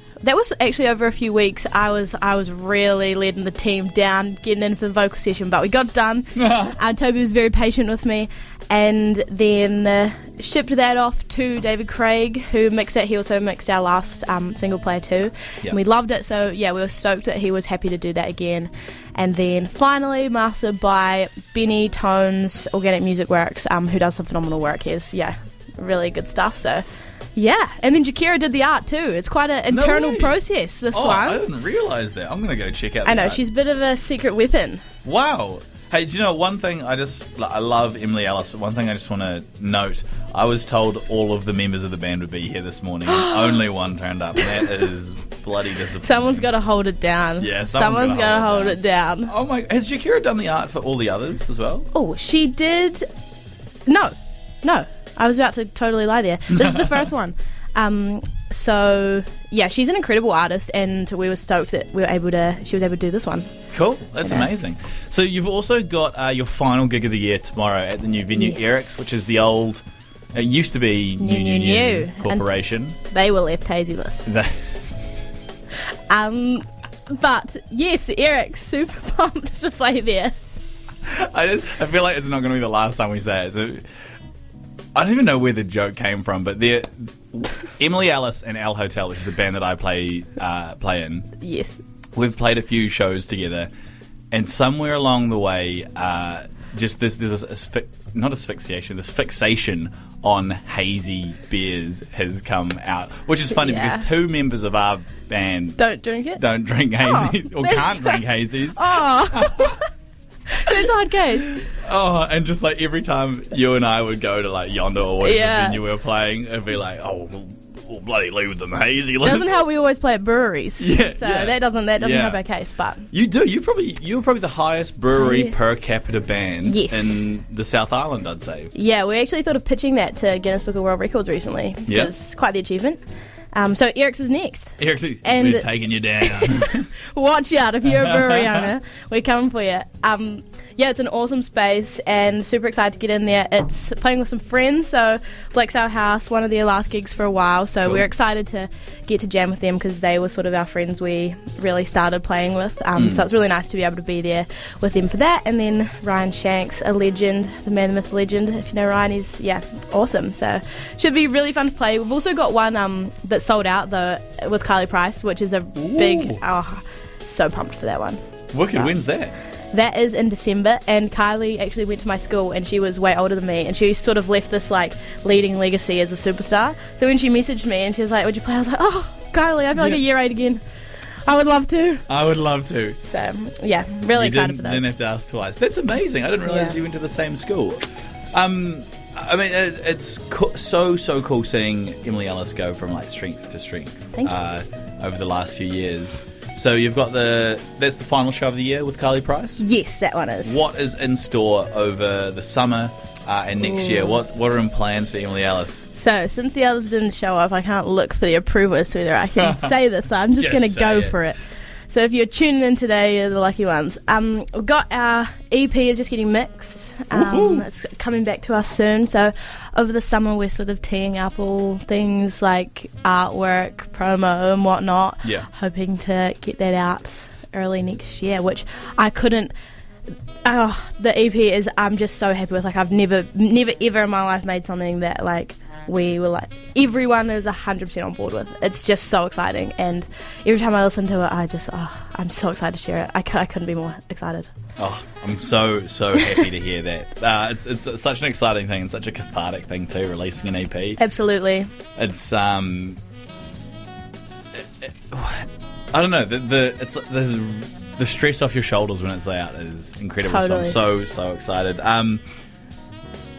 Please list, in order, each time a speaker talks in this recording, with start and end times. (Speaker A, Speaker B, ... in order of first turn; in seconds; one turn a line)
Speaker A: 0.2-31.5
Speaker B: 6.4-6.8
Speaker B: 29.7-30.4
Speaker B: 30.9-33.4
Speaker A: 33.0-34.8
Speaker B: 35.0-46.5
Speaker A: 43.1-43.4
Speaker A: 46.0-49.3
Speaker B: 47.4-51.9
Speaker A: 51.9-53.1
Speaker A: 53.9-63.5
Speaker B: 56.5-57.0
Speaker B: 63.7-69.8
Speaker A: 64.2-64.5
Speaker A: 68.3-69.0
Speaker B: 70.3-73.0
Speaker A: 71.2-72.5
Speaker A: 73.1-74.3
Speaker B: 74.3-74.7
Speaker A: 76.1-80.3
Speaker B: 81.0-83.8
Speaker B: 85.0-91.3
Speaker A: 91.4-91.8
Speaker B: 92.2-93.7
Speaker B: 94.3-105.8
Speaker A: 103.5-104.1
Speaker A: 105.8-106.4
Speaker B: 106.4-109.8
Speaker A: 107.0-109.8
Speaker A: 110.5-111.7
Speaker B: 111.4-119.5
Speaker A: 115.2-115.8
Speaker A: 119.2-123.1
Speaker B: 120.8-122.4
Speaker B: 123.1-128.7
Speaker A: 125.1-125.5
Speaker A: 126.6-127.3
Speaker A: 128.7-133.0
Speaker B: 131.9-132.1
Speaker A: 133.5-168.2
Speaker B: 134.8-136.9
Speaker B: 137.8-138.7
Speaker B: 153.0-153.3
Speaker B: 165.8-166.4
Speaker B: 168.5-169.3
Speaker A: 169.7-180.6
Speaker B: 179.7-180.0
Speaker A: 181.3-182.1
Speaker B: 182.1-183.0
Speaker A: 183.1-184.9
Speaker B: 184.2-199.6
Speaker A: 186.4-186.8
Speaker A: 199.6-200.6
Speaker B: 200.4-205.8
Speaker A: 203.6-204.2
Speaker A: 205.9-229.5
Speaker B: 209.4-209.6
Speaker B: 210.4-211.2
Speaker B: 217.1-217.7
Speaker A: 230.4-244.5
Speaker B: 244.8-251.0
Speaker A: 251.0-251.7
Speaker B: 252.0-253.0
Speaker B: 254.8-262.2
Speaker A: 260.2-260.8